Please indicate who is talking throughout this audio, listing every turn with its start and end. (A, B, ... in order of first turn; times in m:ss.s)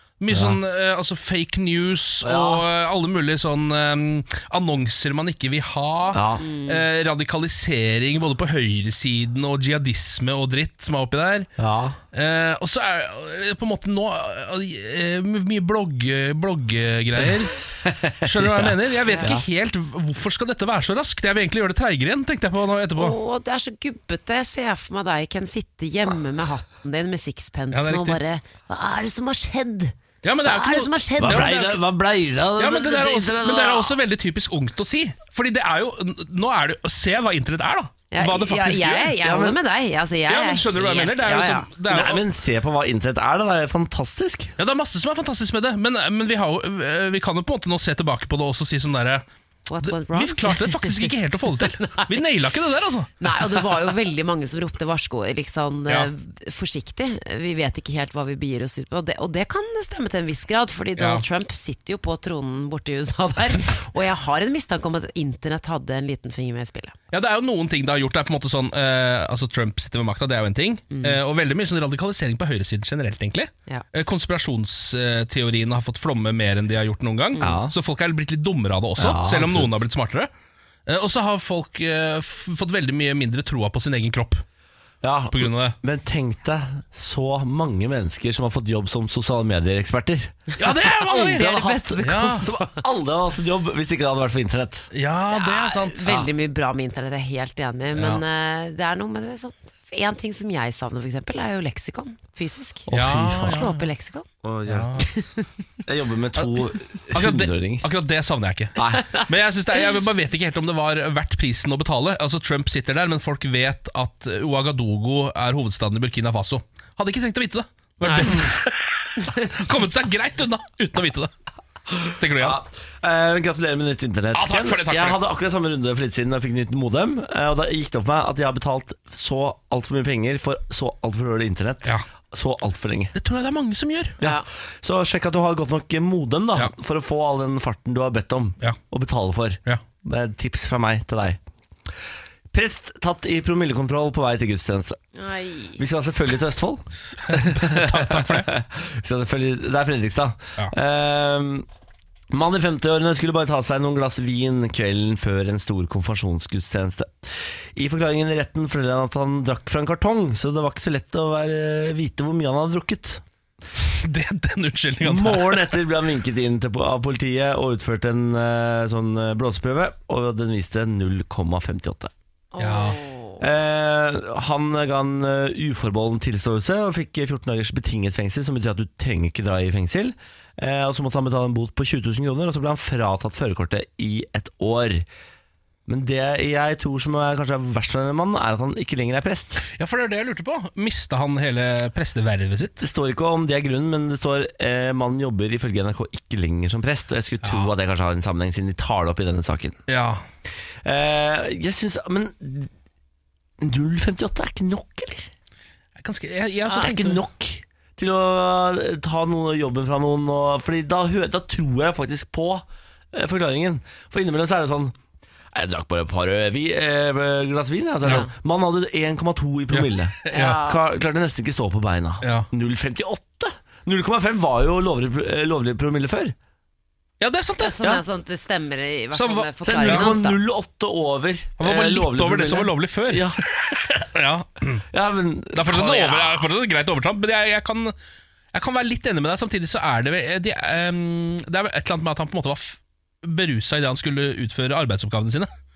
0:00.2-0:11.5 A
0:00.3-0:00.6 B
0:02.2-0:02.7 B
0:06.1-0:06.4 B
0:06.4-0:06.8 C
0:11.6-0:12.0 B
0:12.1-0:17.6 A
0:17.2-0:19.4 B
0:18.2-0:23.2 A
0:19.1-0:19.3 C
0:23.0-0:31.5 C
0:27.7-0:28.2 A
0:30.2-0:31.8 A
0:31.2-0:34.0 B
0:32.6-0:39.2 A
0:38.1-0:41.7 C
0:39.2-0:39.6 B
0:40.3-0:42.2 A
0:41.9-0:44.5 B
0:44.6-0:49.2 A
0:49.7-0:52.1 C
0:49.8-0:53.1 A
0:53.2-1:06.9 C
1:01.0-1:01.2 A
1:07.1-1:20.3 A
1:10.9-1:11.2 C
1:17.4-1:17.7 B
1:19.0-1:19.7 B
1:20.9-1:24.4 A
1:25.0-1:34.9 B
1:25.3-1:25.8 A
1:30.6-1:32.5 A
1:31.1-1:32.8 C
1:34.9-1:36.3 A
1:35.3-1:44.3 C
1:37.9-1:38.2 A
1:42.9-1:43.7 B
1:42.9-1:43.9 A
1:44.4-1:45.0 B
1:44.7-1:45.1 A
1:45.2-1:45.4 C
1:45.8-1:47.9 B
1:47.1-2:01.3 A
1:48.8-1:49.1 B
2:02.0-2:02.6 A
2:02.4-2:13.1 B
2:04.3-2:05.2 A
2:13.1-2:14.2 A
2:14.2-2:14.4 C
2:14.2-2:21.4 B
2:22.5-2:25.0 B
2:25.1-2:25.8 C
2:25.8-2:31.7 B
2:27.2-2:28.5 A
2:32.3-2:43.2 B
2:43.9-2:45.8 A
2:45.0-2:52.1 B
2:52.5-2:53.4 C
2:52.6-2:53.0 A
2:53.4-3:05.1 B
3:05.9-3:09.6 B
3:09.8-3:12.8 A
3:12.8-3:19.8 B
3:17.4-3:17.7 A
3:19.9-3:20.2 A
3:20.8-3:22.7 B
3:23.6-3:25.3 B
3:26.0-3:27.2 A
3:26.7-3:34.9 B
3:35.5-3:46.3 B
3:39.7-3:40.6 A
3:40.3-3:40.8 C
3:42.2-3:42.5 A
3:47.2-3:48.0 A
3:47.6-3:50.4 C
3:49.1-3:50.1 A
3:49.6-3:53.4 B
3:51.6-3:54.8 A
3:54.9-3:56.4 B
3:55.5-3:57.9 A
3:58.5-4:05.5 A